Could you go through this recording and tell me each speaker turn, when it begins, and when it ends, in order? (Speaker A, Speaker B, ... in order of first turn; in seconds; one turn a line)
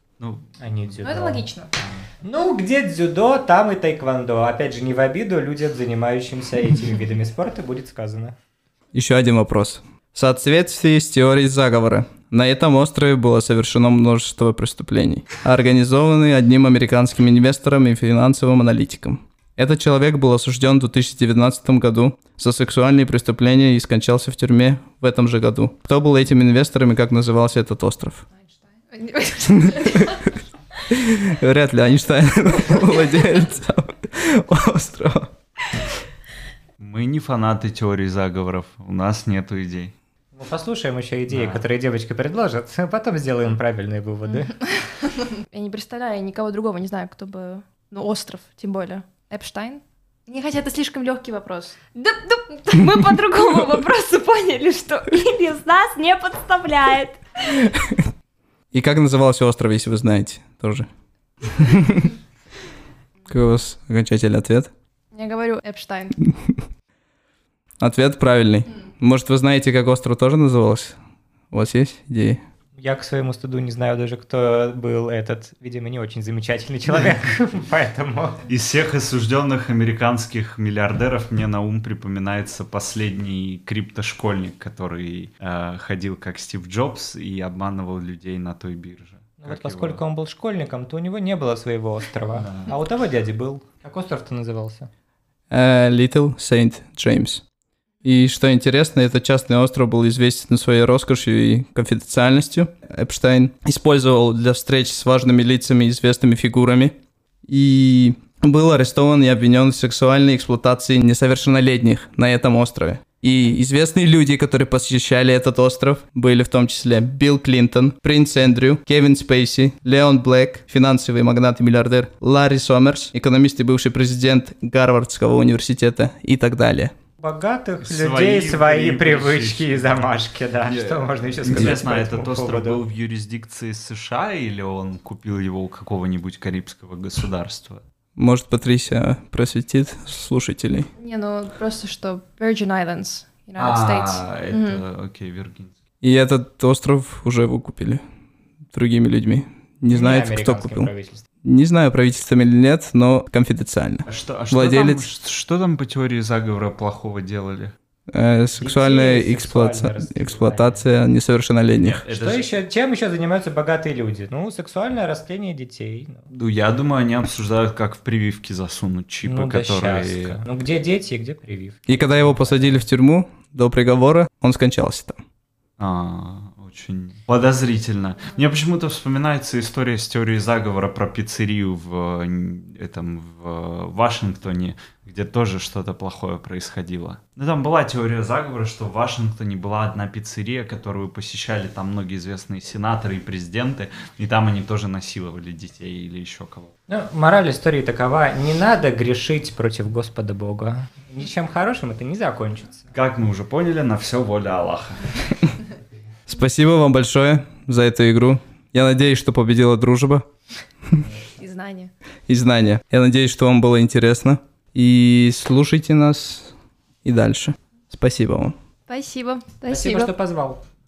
Speaker A: 0.2-0.5
Speaker B: 0.6-1.5
Speaker C: 1.0-1.7
Speaker A: 1.8-2.0
Speaker B: 2.2-8.4
Speaker D: 8.9-28.2
Speaker C: 28.4-30.4
Speaker D: 29.6-30.2
Speaker D: 30.9-35.3
Speaker A: 36.8-39.9
Speaker B: 40.3-44.5
Speaker A: 41.3-41.7
Speaker C: 44.4-51.8
Speaker E: 52.0-57.2
Speaker D: 57.6-58.0
Speaker D: 58.7-60.9
Speaker D: 61.4-62.1
Speaker D: 63.3-64.7
Speaker C: 65.1-66.2
Speaker D: 67.8-71.0
Speaker D: 71.5-72.4
Speaker B: 72.8-78.4
Speaker A: 78.5-90.0
Speaker B: 89.4-94.9
Speaker A: 92.3-92.8
Speaker D: 95.5-97.4
Speaker D: 98.0-107.0
Speaker D: 107.5-126.9
Speaker B: 127.2-132.8
Speaker A: 127.8-130.1
Speaker A: 130.7-137.8
Speaker D: 138.2-140.9
Speaker C: 141.0-144.8
Speaker A: 143.6-145.8
Speaker D: 146.0-148.0
Speaker D: 148.7-150.9
Speaker B: 149.9-151.2
Speaker D: 151.4-155.1
Speaker A: 154.1-157.7
Speaker D: 158.1-162.0
Speaker B: 158.6-160.9
Speaker A: 161.8-162.5
Speaker B: 162.1-166.3
Speaker A: 166.3-170.4
Speaker B: 169.2-172.8
Speaker D: 171.9-175.2
Speaker A: 175.8-196.7
Speaker B: 196.9-202.9
Speaker A: 202.9-205.4
Speaker D: 206.3-210.3
Speaker C: 211.4-211.9
Speaker D: 212.3-216.5
Speaker D: 217.0-218.6
Speaker C: 218.9-219.6
Speaker E: 219.6-220.1
Speaker B: 219.7-220.6